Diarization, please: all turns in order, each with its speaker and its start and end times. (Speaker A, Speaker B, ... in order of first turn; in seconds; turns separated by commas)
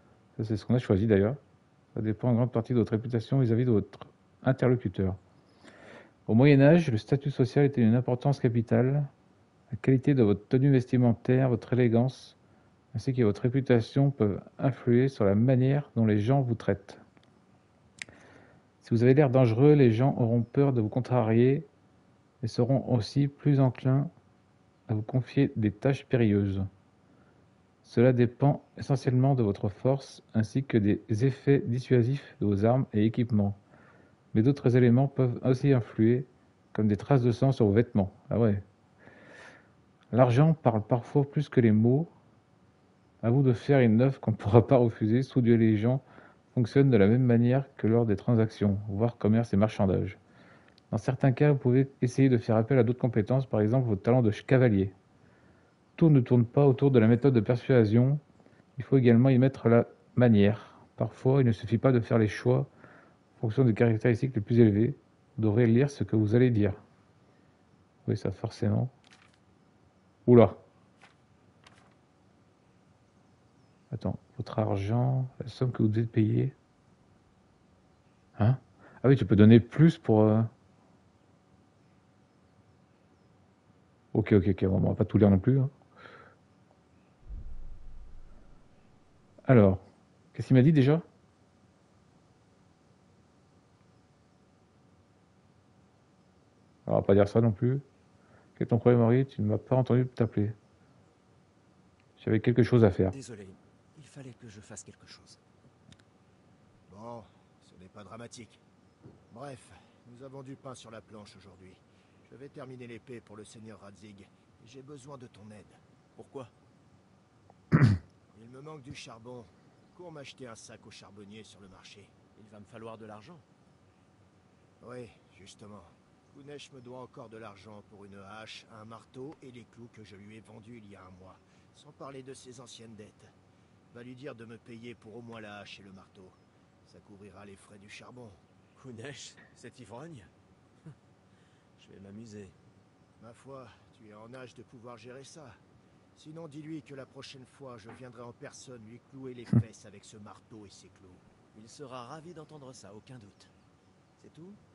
Speaker A: 0.4-1.4, Speaker A: 1.9-5.2, Speaker A: 6.3-9.1, Speaker A: 9.7-12.4, Speaker A: 12.9-17.0, Speaker A: 18.8-21.7, Speaker A: 22.4-24.1, Speaker A: 24.9-26.7, Speaker A: 27.8-33.6, Speaker A: 34.3-38.6, Speaker A: 40.1-42.1, Speaker A: 43.2-46.0, Speaker A: 46.5-50.2, Speaker A: 50.9-54.9, Speaker A: 56.0-58.2, Speaker A: 58.8-62.7, Speaker A: 63.4-66.8, Speaker A: 68.0-68.9, Speaker A: 70.2-70.6, Speaker A: 73.9-76.5, Speaker A: 78.4-80.5, Speaker A: 84.1-85.7, Speaker A: 89.5-89.8, Speaker A: 90.3-91.0, Speaker A: 96.8-97.8, Speaker A: 98.6-100.6, Speaker A: 102.2-103.1, Speaker B: 103.1-105.4, Speaker C: 106.9-108.6, Speaker C: 109.3-115.8, Speaker B: 116.1-116.5, Speaker C: 118.3-122.1, Speaker B: 122.3-123.4, Speaker C: 124.8-133.3, Speaker C: 133.9-138.4, Speaker B: 138.7-140.3, Speaker B: 141.8-142.5, Speaker C: 143.2-145.6, Speaker C: 146.2-151.2, Speaker B: 151.5-153.5, Speaker B: 154.2-154.6